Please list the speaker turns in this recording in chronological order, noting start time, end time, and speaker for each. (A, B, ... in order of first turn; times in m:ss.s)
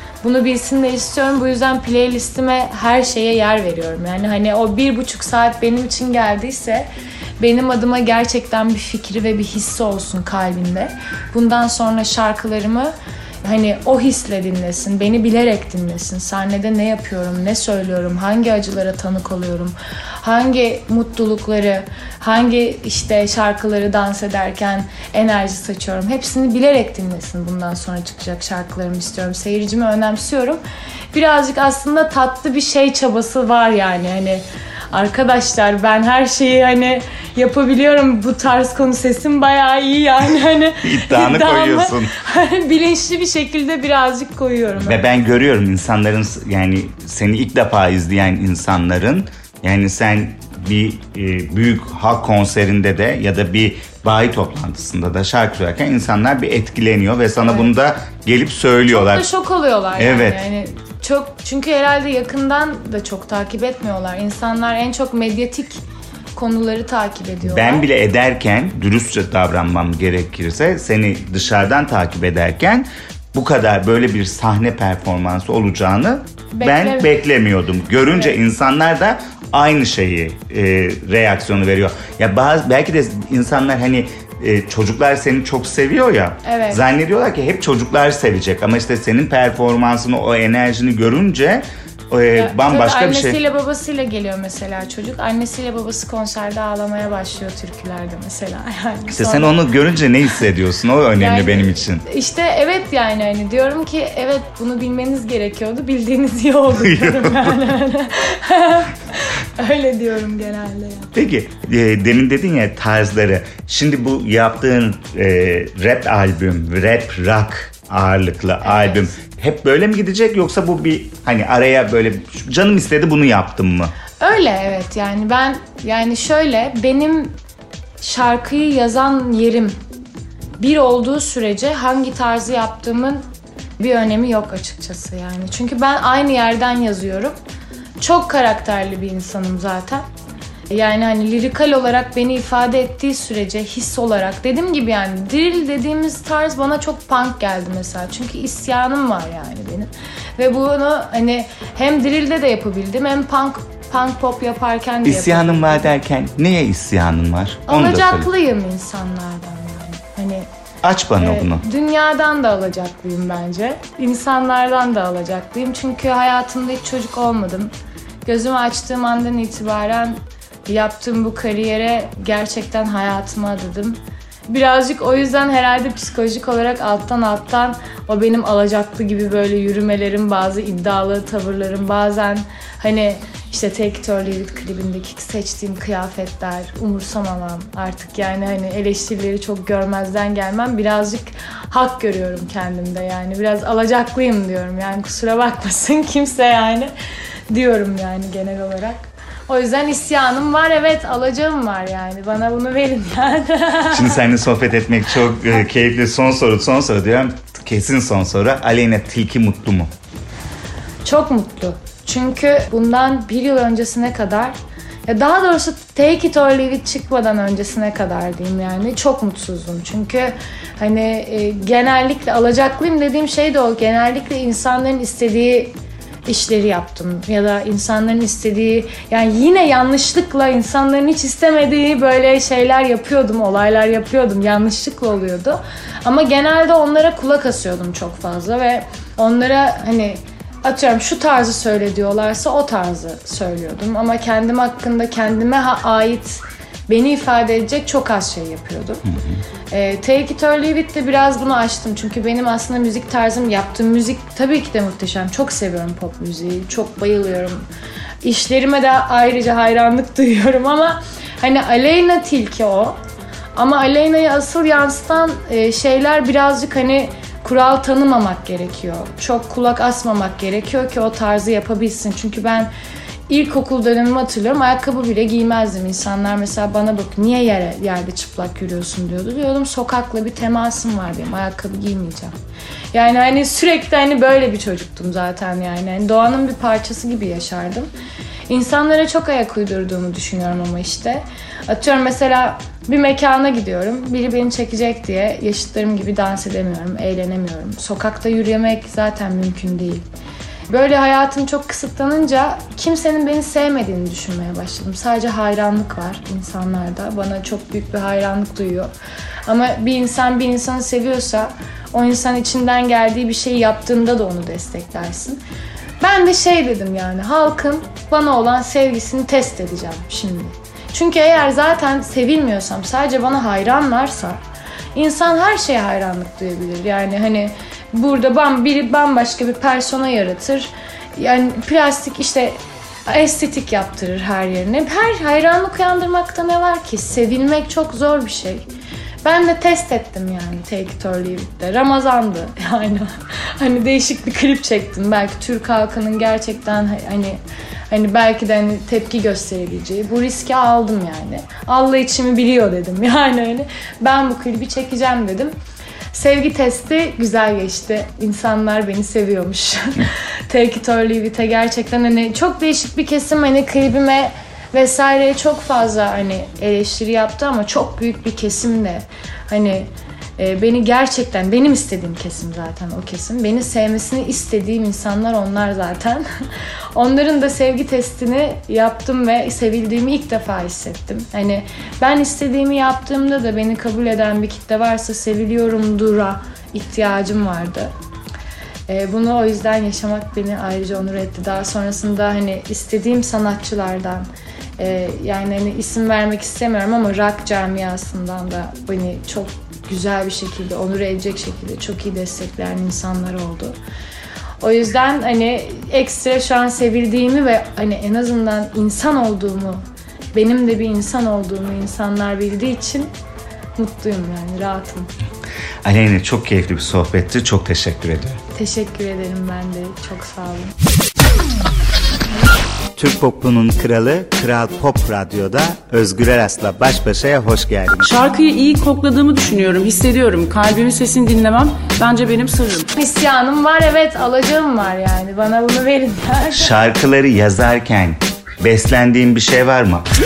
0:00.2-0:06.9 A
0:07.4-0:12.9 A
0:13.4-0:30.6 A
0:31.1-0:45.0 A
0:40.8-0:42.1 B
0:44.8-0:59.2 B
0:57.4-0:57.7 A
0:58.9-1:05.8 A
1:00.0-1:00.4 B
1:06.4-1:07.9 A
1:07.4-1:33.4 B
1:16.5-1:17.2 A
1:26.4-1:26.8 A
1:32.4-1:39.6 A
1:39.1-1:42.0 B
1:41.2-1:51.1 A
1:46.8-1:47.6 B
1:51.2-2:03.9 B
1:58.6-1:59.1 A
2:04.2-2:07.4 A
2:08.0-2:09.8 A
2:10.6-2:13.2 A
2:13.8-2:17.4 A
2:18.0-2:20.0 A
2:20.7-2:35.9 A
2:35.0-2:38.3 B
2:37.7-2:40.5 A
2:40.8-2:41.6 B
2:41.2-2:47.7 A
2:48.2-3:16.9 A
3:17.5-3:24.2 A
3:23.9-3:29.9 B
3:31.0-3:34.6 A
3:35.1-3:45.7 A
3:46.3-4:09.0 A
4:09.7-4:17.7 A
4:18.2-4:23.0 A
4:23.6-4:32.7 A
4:33.3-4:42.3 A
4:42.9-4:47.9 A
4:48.5-5:00.0 A
5:00.7-5:08.9 A
5:09.5-5:15.4 A
5:16.0-5:24.4 A
5:25.0-5:32.6 A
5:33.1-5:38.7 A
5:39.2-5:47.4 A
5:47.9-5:55.5 A
5:56.1-6:16.2 A
6:17.0-6:27.9 A
6:28.9-6:43.8 A
6:44.6-6:49.8 A
6:50.3-6:53.1 A
6:53.8-6:55.1 A
6:55.8-6:58.4 B
6:58.5-7:00.7 A
7:03.0-7:08.1 B
7:08.0-7:12.9 C
7:13.0-7:16.7 A
7:16.5-7:20.1 B